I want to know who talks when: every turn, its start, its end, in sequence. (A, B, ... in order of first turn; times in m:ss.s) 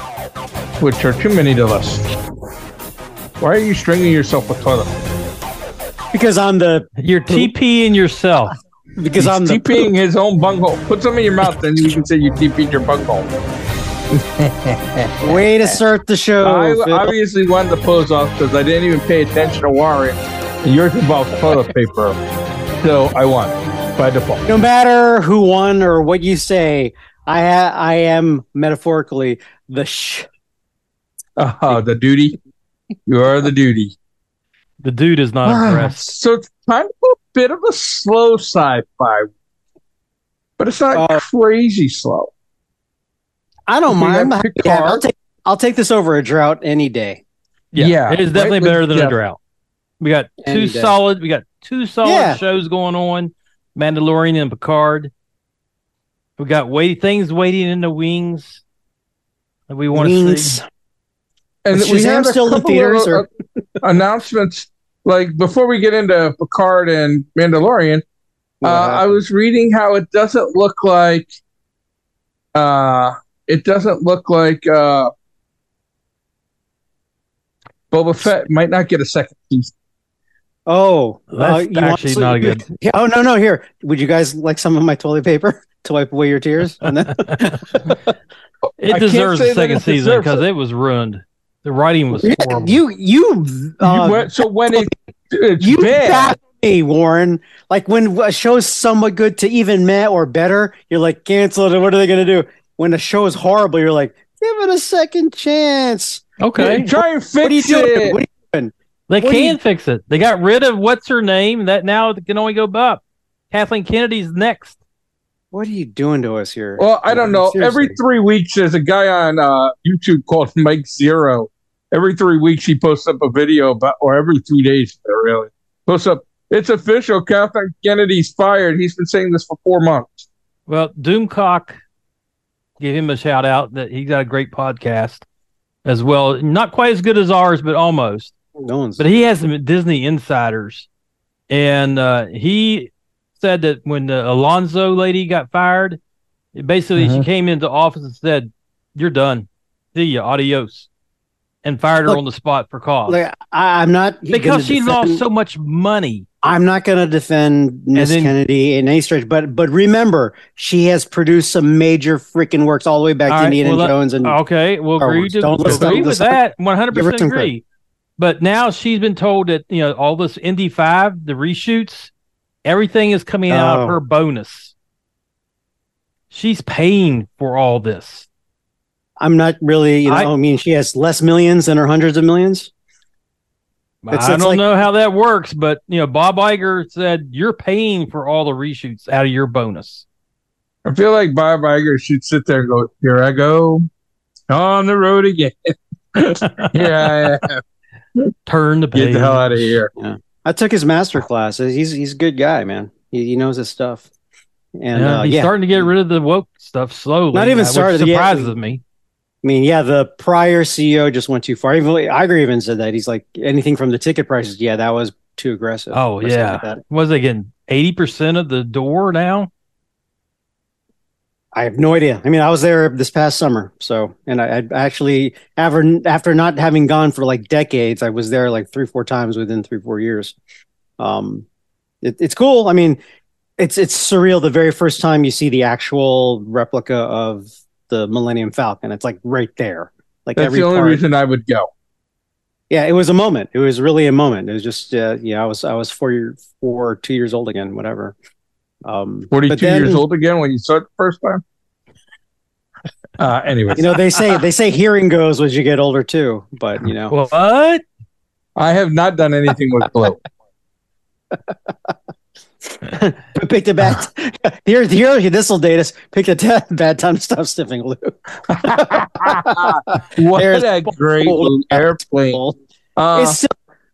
0:00.8-0:02.1 A
0:03.4-0:04.9 A
0:06.1-0:07.5 B
0:07.0-0:08.6 C
0:09.0-0:09.9 B
0:09.2-0:13.3 A
0:14.2-0:15.4 A
0:15.2-0:17.1 B
0:16.4-0:22.2 A
0:22.8-0:24.4 A
0:24.5-0:30.3 B
0:31.4-0:32.4 A
0:33.1-0:33.9 A
0:34.8-0:36.1 C
0:35.4-0:39.3 A
0:40.6-0:42.3 A
0:40.9-0:41.2 B
0:43.7-0:47.2 B
0:43.9-0:45.0 A
0:47.7-0:49.4 C
0:47.8-0:49.1 A
0:50.0-0:55.1 C
0:50.4-0:51.0 B
0:52.0-0:52.4 B
0:56.4-0:58.6 C
0:59.7-1:00.6 C
0:59.9-1:00.6 B
1:01.6-1:03.2 A
1:01.7-1:03.3 B
1:03.8-1:08.0 A
1:08.6-1:09.2 B
1:08.6-1:11.3 A
1:12.6-1:15.1 A
1:17.9-1:19.7 A
1:20.7-1:28.0 B
1:21.3-1:22.6 C
1:28.8-1:32.8 C
1:28.8-1:30.4 A
1:32.2-1:34.9 B
1:33.8-1:36.4 A
1:35.6-1:46.2 B
1:46.4-1:46.9 C
1:46.6-1:48.2 A
1:47.4-1:48.7 B
1:49.1-1:54.8 C
1:49.2-1:49.5 A
1:55.5-1:58.0 B
1:56.8-2:10.3 A
2:10.7-2:11.8 C
2:12.8-2:15.2 C
2:15.8-2:18.3 C
2:18.6-2:19.1 B
2:19.0-2:20.9 C
2:21.5-2:26.0 C
2:26.6-2:30.9 C
2:27.0-2:27.3 A
2:31.6-2:33.3 C
2:33.1-2:35.2 B
2:34.3-2:36.3 C
2:36.4-2:44.4 B
2:37.9-2:38.3 C
2:43.3-2:47.6 C
2:45.0-2:46.4 B
2:45.6-2:46.1 A
2:46.9-2:47.5 B
2:48.2-2:52.1 C
2:52.7-2:54.7 C
2:53.5-2:54.0 B
2:56.3-2:58.3 C
2:59.2-3:02.7 B
3:00.1-3:00.3 C
3:04.0-3:10.0 C
3:04.1-3:04.6 B
3:10.8-3:13.8 A
3:14.5-3:17.6 A
3:16.4-3:16.9 C
3:18.5-3:19.8 C
3:19.0-3:19.9 A
3:20.0-3:24.1 B
3:24.8-3:25.9 B
3:24.9-3:28.8 C
3:27.3-3:28.5 B
3:29.4-3:36.8 B
3:35.9-3:39.5 C
3:41.5-3:50.4 B
3:51.0-3:51.5 B
3:52.0-3:53.0 B
3:53.6-4:01.0 B
4:00.4-4:01.7 A
4:02.7-4:08.2 B
4:08.8-4:10.0 B
4:09.3-4:11.4 A
4:13.2-4:13.9 A
4:13.8-4:17.2 B
4:17.1-4:17.8 C
4:18.6-4:20.2 A
4:22.7-4:32.6 B
4:28.5-4:32.4 A
4:33.0-4:33.4 A
4:33.1-4:33.5 B